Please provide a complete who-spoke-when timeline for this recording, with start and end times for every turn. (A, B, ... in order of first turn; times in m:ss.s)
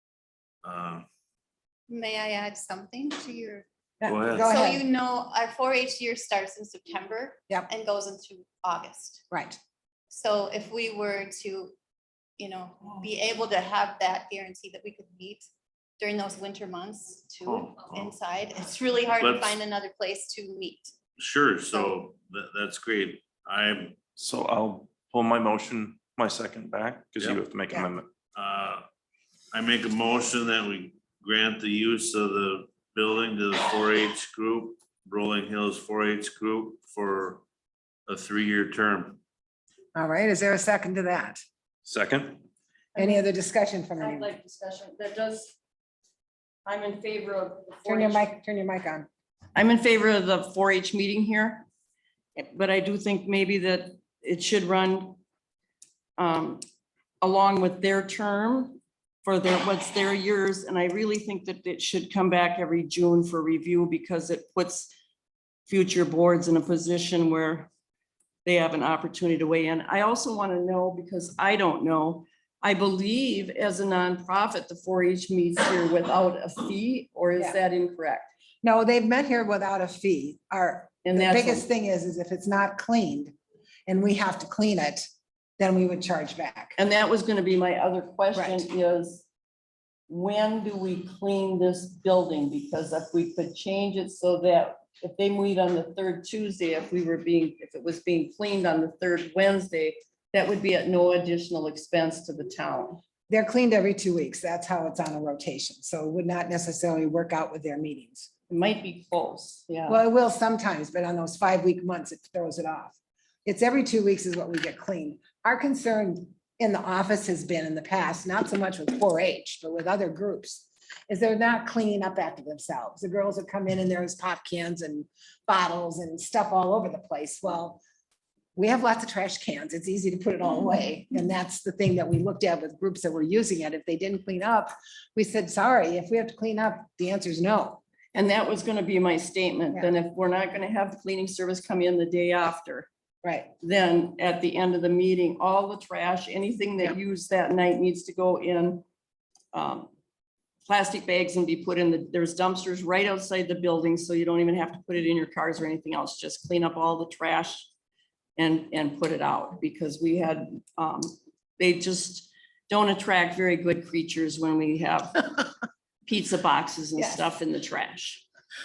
0:00.6-0:01.0 A
0:01.9-0:03.6 B
0:04.0-0:04.8 C
0:04.1-0:04.4 A
0:04.4-0:09.2 B
0:09.3-0:09.6 C
0:10.1-0:11.7 B
0:12.4-0:15.5 B
0:16.0-0:20.9 B
0:17.6-0:18.1 A
0:19.2-0:19.5 A
0:21.2-0:24.0 A
0:24.2-0:28.1 D
0:28.4-0:28.9 A
0:29.5-0:37.4 A
0:38.1-0:39.2 A
0:40.0-0:41.4 C
0:41.8-0:42.4 D
0:43.0-0:44.3 C
0:43.0-0:43.2 E
0:44.0-0:45.6 E
0:46.6-0:48.3 E
0:47.8-0:49.1 C
0:49.6-0:51.7 E
0:52.4-0:55.2 E
0:56.2-0:56.6 E
0:57.2-1:04.9 E
1:05.7-1:07.7 E
1:08.4-1:18.3 E
1:18.6-1:23.4 C
1:21.0-1:21.7 E
1:23.9-1:25.1 C
1:25.6-1:26.8 C
1:26.8-1:29.3 E
1:28.4-1:28.7 C
1:30.1-1:43.0 E
1:43.3-1:48.3 C
1:48.5-1:50.0 E
1:49.9-2:07.8 C
2:08.6-2:17.8 C
2:18.1-2:22.9 E
2:23.2-2:23.5 C
2:23.6-2:28.8 E
2:29.5-2:29.9 E
2:30.7-2:37.7 E
2:38.4-2:45.4 E
2:46.1-2:48.2 E
2:47.0-2:47.2 C